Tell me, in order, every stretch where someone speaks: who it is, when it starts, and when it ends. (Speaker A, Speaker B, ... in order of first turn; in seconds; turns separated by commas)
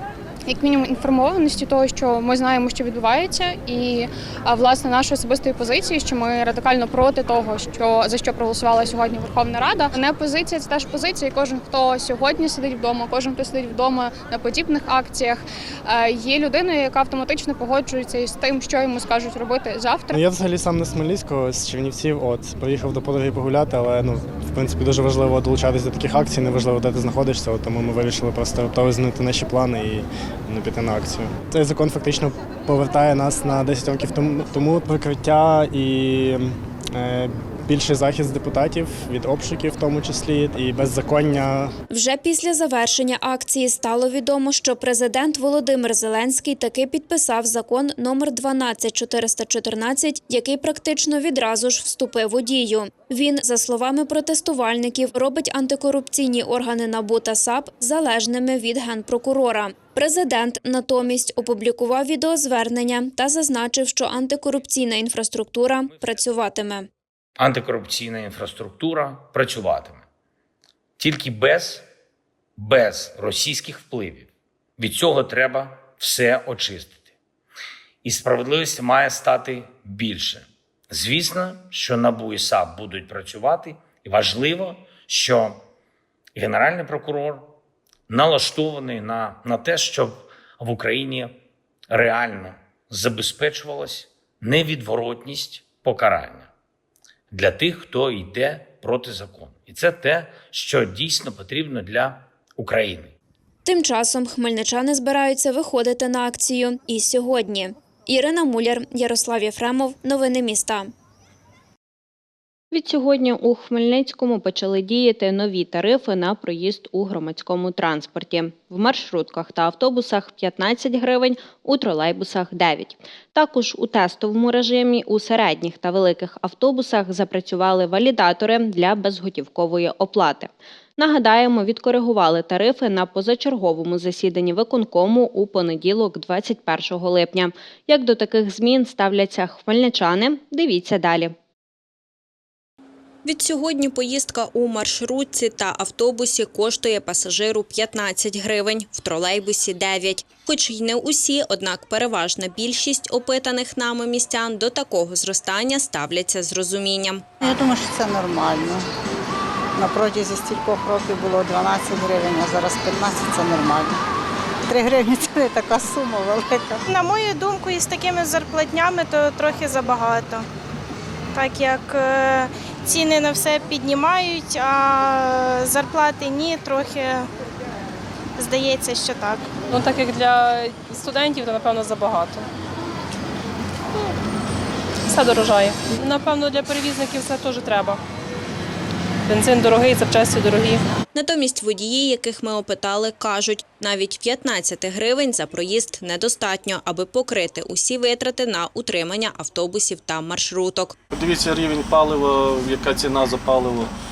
Speaker A: 0.5-20.2, Speaker B: 20.1-41.7, Speaker C: 41.9-66.9, Speaker D: 67.4-70.0, Speaker D: 71.0-71.9, Speaker D: 72.6-76.9, Speaker D: 78.0-85.6, Speaker D: 86.4-87.5, Speaker D: 88.1-91.3, Speaker D: 91.9-96.5, Speaker D: 97.3-103.1, Speaker C: 103.7-110.9, Speaker E: 112.7-141.3, Speaker E: 143.2-157.2, Speaker F: 157.4-158.8, Speaker F: 159.8-163.9, Speaker F: 164.7-166.8, Speaker G: 166.9-170.5, Speaker G: 171.3-177.3, Speaker G: 178.4-179.4, Speaker A: 179.8-182.3, Speaker H: 181.1-182.4, Speaker H: 185.1-188.0, Speaker A: 186.1-186.8, Speaker H: 189.3-190.7, Speaker E: 191.1-200.9, Speaker I: 201.1-203.9